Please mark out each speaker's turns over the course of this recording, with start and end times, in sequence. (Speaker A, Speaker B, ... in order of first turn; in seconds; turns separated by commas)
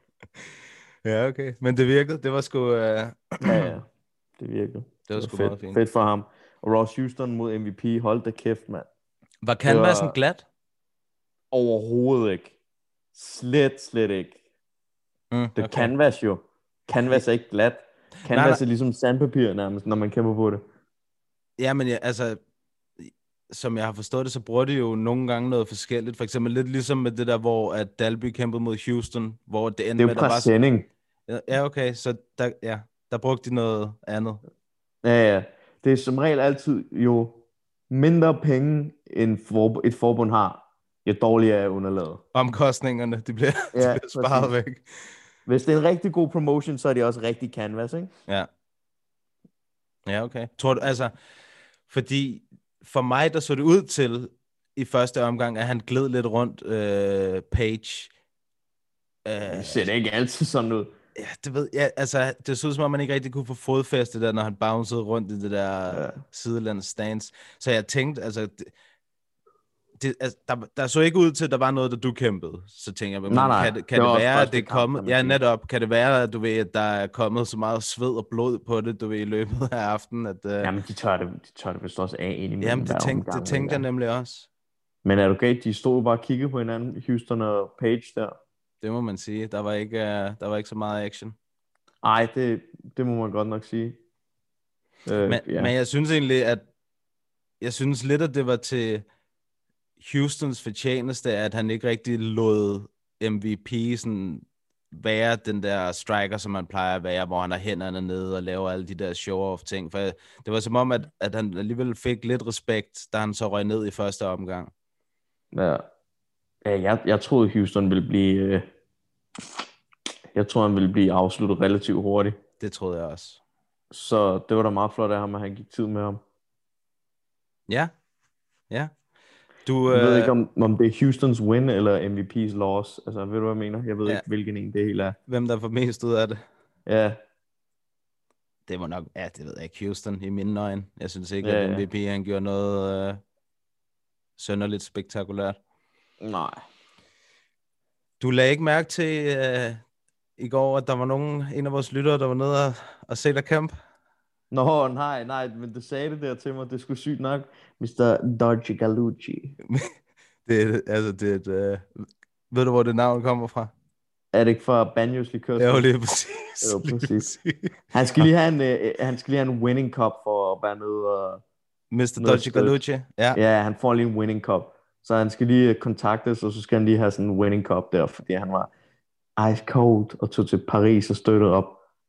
Speaker A: 1.0-3.7, Speaker B: 3.4-3.8, Speaker B: 4.4-8.9, Speaker A: 5.1-5.8, Speaker A: 9.4-10.4, Speaker B: 9.7-10.2, Speaker B: 11.5-12.5, Speaker B: 13.1-14.4, Speaker A: 15.3-15.9, Speaker B: 15.6-20.6, Speaker A: 18.2-18.6, Speaker A: 21.6-22.4, Speaker A: 23.0-30.5, Speaker B: 30.0-30.9, Speaker A: 31.3-34.4, Speaker B: 35.0-42.2, Speaker A: 42.3-44.8, Speaker B: 43.7-44.5, Speaker B: 45.5-48.1, Speaker A: 50.1-51.1, Speaker A: 51.9-58.1, Speaker A: 59.2-59.9, Speaker B: 59.4-60.9, Speaker A: 61.1-68.7, Speaker B: 65.9-66.2, Speaker A: 70.0-80.7, Speaker B: 73.3-75.4, Speaker B: 80.6-83.8, Speaker A: 82.6-84.5, Speaker B: 85.0-88.3, Speaker A: 88.8-91.3, Speaker B: 92.0-94.0, Speaker B: 95.0-95.7, Speaker A: 95.3-96.6, Speaker A: 97.6-99.0, Speaker A: 100.0-114.7, Speaker B: 115.5-115.8, Speaker B: 116.6-118.7, Speaker B: 120.3-122.4, Speaker A: 122.6-123.4, Speaker B: 123.9-126.2, Speaker A: 129.7-130.3, Speaker B: 129.9-135.2, Speaker A: 135.3-136.4, Speaker B: 136.9-137.2, Speaker A: 138.7-143.2, Speaker B: 141.4-141.8, Speaker A: 144.4-145.6, Speaker B: 146.2-146.6, Speaker A: 148.2-149.8, Speaker A: 150.4-153.7, Speaker B: 154.5-159.6, Speaker A: 159.6-159.9, Speaker A: 160.4-161.9, Speaker A: 162.5-163.7, Speaker B: 164.3-165.9, Speaker A: 165.6-167.7, Speaker B: 166.6-167.3, Speaker B: 167.9-171.4, Speaker A: 171.9-173.4, Speaker B: 172.2-172.8, Speaker B: 173.3-178.7, Speaker B: 179.4-181.8